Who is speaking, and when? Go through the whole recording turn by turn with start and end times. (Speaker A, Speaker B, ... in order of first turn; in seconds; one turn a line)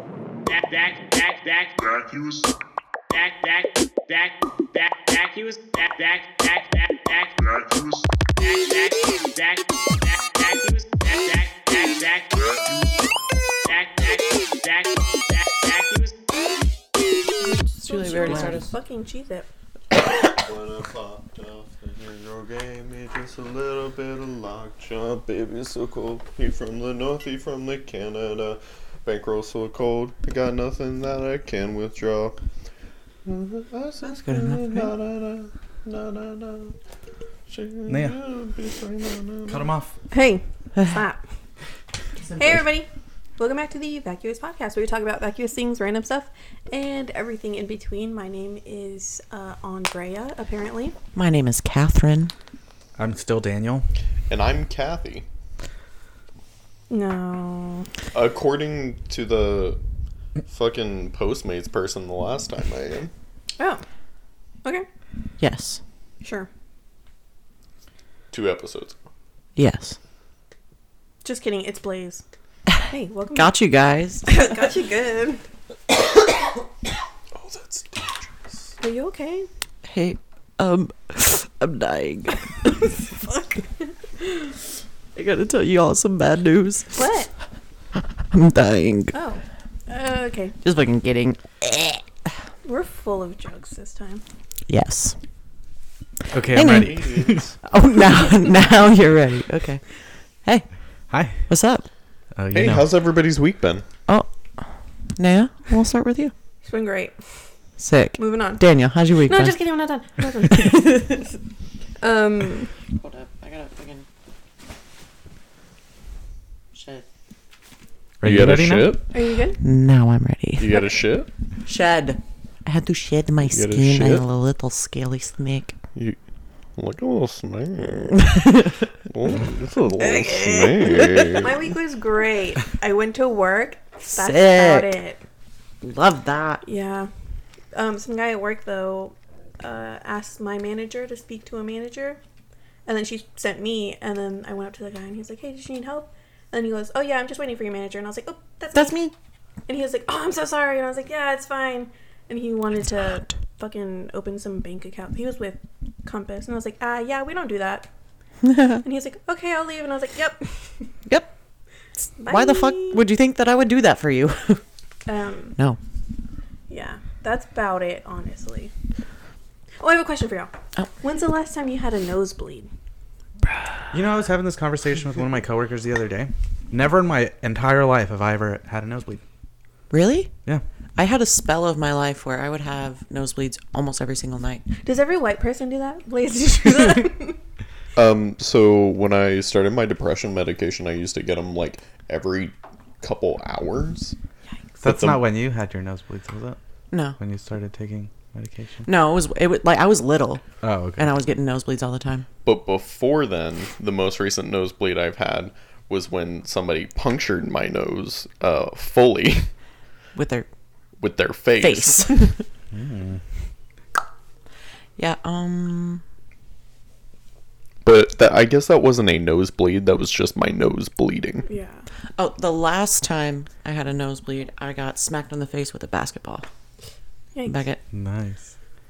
Speaker A: 0.5-1.8
Speaker B: 1.8-2.5
Speaker A: 3.1-7.3
Speaker B: 7.4-8.2
Speaker A: 8.4-12.3
Speaker B: 12.3-13.1
Speaker A: 13.6-16.1
Speaker C: 17.5-18.7
Speaker D: 17.8-19.5
Speaker E: 20.3-32.4
Speaker E: 33.2-36.7
Speaker C: 34.0-34.9
Speaker E: 37.5-39.7
Speaker F: 37.9-38.2
Speaker F: 39.5-39.9
Speaker D: 40.1-41.2
Speaker C: 42.2-42.6
Speaker D: 42.4-50.9
Speaker C: 51.1-52.3
Speaker F: 53.0-53.8
Speaker E: 54.3-55.2
Speaker D: 56.9-57.9
Speaker E: 58.1-59.8
Speaker E: 60.5-63.1
Speaker C: 65.4-65.8
Speaker D: 66.2-66.5
Speaker E: 68.3-69.0
Speaker C: 69.6-70.0
Speaker D: 71.2-72.2
Speaker C: 72.7-74.4
Speaker D: 72.9-73.5
Speaker D: 74.3-75.4
Speaker E: 77.3-78.7
Speaker D: 78.8-79.5
Speaker C: 79.9-82.8
Speaker C: 85.1-87.0
Speaker D: 86.9-87.3
Speaker C: 88.2-89.2
Speaker D: 89.1-90.5
Speaker C: 90.6-92.1
Speaker D: 92.6-94.2
Speaker C: 94.7-95.2
Speaker F: 96.3-97.5
Speaker C: 96.5-97.0
Speaker E: 96.6-97.4
Speaker C: 97.6-99.8
Speaker F: 101.1-101.5
Speaker C: 101.5-101.8
Speaker F: 102.3-102.9
Speaker E: 102.5-103.8
Speaker C: 104.1-106.3
Speaker D: 106.6-107.1
Speaker C: 107.8-109.6
Speaker D: 108.2-108.6
Speaker D: 109.3-111.2
Speaker C: 110.5-111.2
Speaker D: 112.0-112.7
Speaker C: 112.9-114.0
Speaker C: 116.7-117.0
Speaker F: 118.2-119.0
Speaker E: 118.2-119.1
Speaker D: 119.1-119.6
Speaker C: 119.6-120.8
Speaker E: 120.6-121.3
Speaker C: 121.6-125.7
Speaker E: 123.4-124.2
Speaker E: 126.8-128.5
Speaker C: 128.2-128.8
Speaker E: 129.1-131.7
Speaker D: 130.0-135.2
Speaker C: 131.0-131.3
Speaker C: 134.0-134.9
Speaker C: 135.8-136.6
Speaker D: 136.6-137.1
Speaker D: 137.7-142.2
Speaker D: 142.8-149.0
Speaker C: 148.7-149.1
Speaker D: 149.7-157.9
Speaker C: 158.4-158.8
Speaker D: 158.8-160.9
Speaker C: 162.0-164.6
Speaker D: 162.2-163.0
Speaker D: 165.1-165.6
Speaker D: 166.7-168.7
Speaker D: 169.8-172.7
Speaker F: 173.9-179.2
Speaker C: 179.9-180.3
Speaker C: 180.9-184.6
Speaker D: 184.8-187.4
Speaker E: 187.9-194.2
Speaker F: 194.8-196.6
Speaker E: 194.8-195.2
Speaker C: 196.9-197.2
Speaker F: 197.2-198.9
Speaker C: 198.8-200.4
Speaker F: 200.6-201.1
Speaker C: 201.0-202.2
Speaker E: 202.4-209.5
Speaker C: 210.1-210.5
Speaker E: 211.0-212.2
Speaker C: 211.6-212.4
Speaker F: 212.7-213.2
Speaker C: 215.0-216.0
Speaker E: 217.8-221.5
Speaker D: 221.4-221.9
Speaker C: 222.2-226.4
Speaker D: 227.3-227.7
Speaker C: 227.4-227.8
Speaker F: 227.9-228.5